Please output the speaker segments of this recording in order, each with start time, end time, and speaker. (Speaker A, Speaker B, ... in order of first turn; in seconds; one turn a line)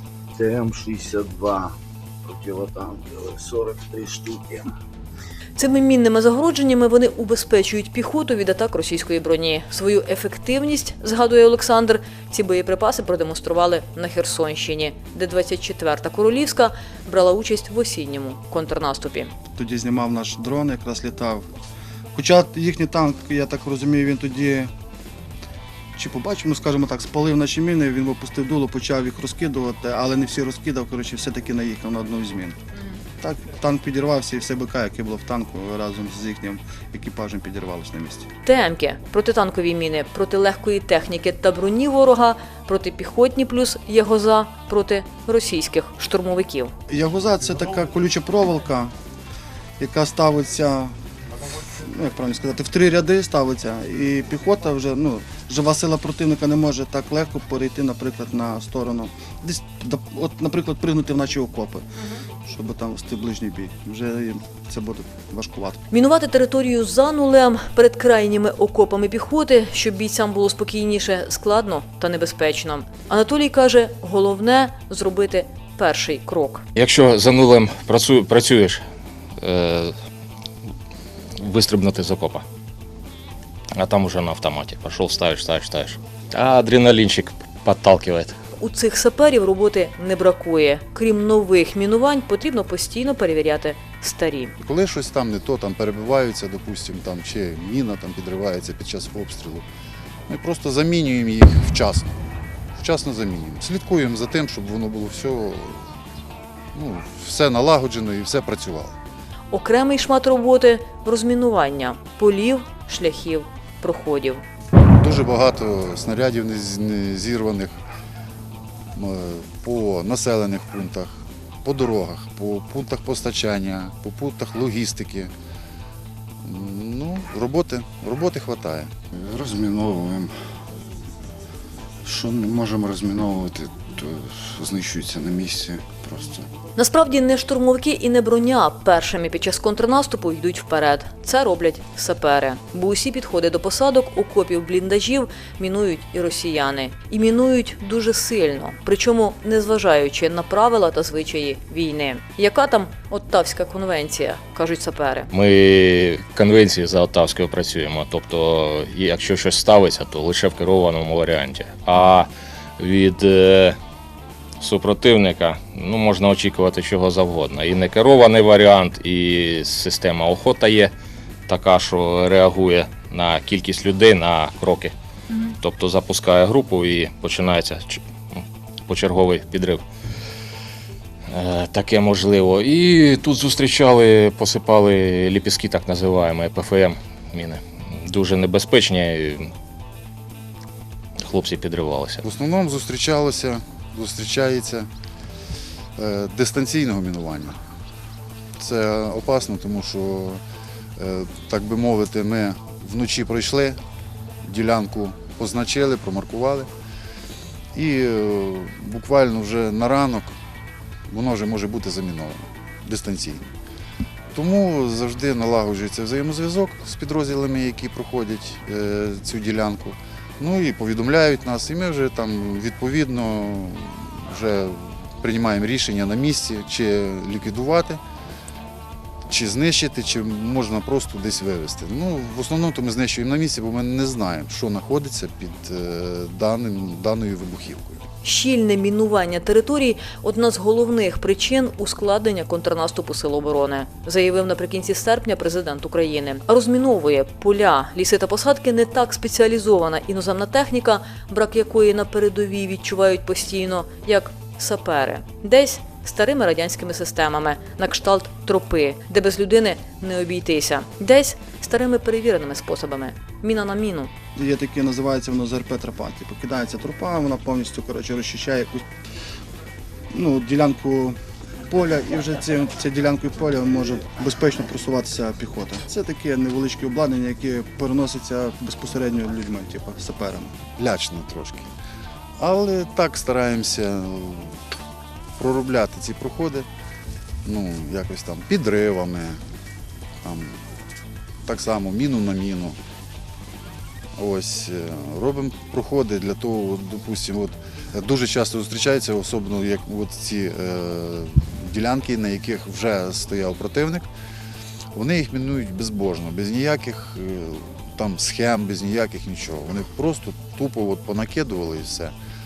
Speaker A: 0.4-1.7
Speaker A: 2.3-4.6
Speaker B: 5.5-19.3
Speaker C: 19.6-21.5
Speaker C: 22.1-24.7
Speaker C: 25.9-32.6
Speaker C: 33.2-38.3
Speaker B: 38.4-46.7
Speaker C: 46.9-48.9
Speaker C: 49.8-50.9
Speaker C: 51.7-61.8
Speaker C: 62.5-65.8
Speaker B: 65.9-76.6
Speaker D: 76.7-78.8
Speaker D: 79.4-79.9
Speaker D: 81.4-82.4
Speaker D: 83.8-88.4
Speaker B: 88.6-94.5
Speaker E: 94.6-99.6
Speaker E: 100.3-102.1
Speaker E: 102.8-105.9
Speaker E: 106.7-108.9
Speaker B: 109.5-114.4
Speaker E: 115.0-117.8
Speaker E: 118.9-125.3
Speaker E: 126.4-128.9
Speaker F: 129.1-130.3
Speaker F: 132.0-136.5
Speaker B: 136.8-155.3
Speaker D: 155.3-163.8
Speaker D: 164.6-170.9
Speaker D: 171.5-174.9
Speaker D: 175.5-179.8
Speaker D: 181.3-189.5
Speaker D: 191.2-192.2
Speaker E: 192.2-194.9
Speaker E: 196.0-197.6
Speaker E: 198.6-200.4
Speaker E: 201.0-203.8
Speaker E: 204.4-206.7
Speaker E: 207.7-210.3
Speaker E: 211.1-213.5
Speaker E: 214.3-228.0
Speaker E: 229.3-238.0
Speaker B: 238.2-264.1
Speaker C: 264.3-268.8
Speaker C: 270.1-271.2
Speaker C: 271.7-280.5
Speaker E: 280.8-281.7
Speaker E: 282.4-284.6
Speaker E: 285.4-286.7
Speaker E: 287.4-289.4
Speaker E: 290.2-290.6
Speaker E: 291.4-292.8
Speaker E: 294.2-304.1
Speaker E: 304.9-312.1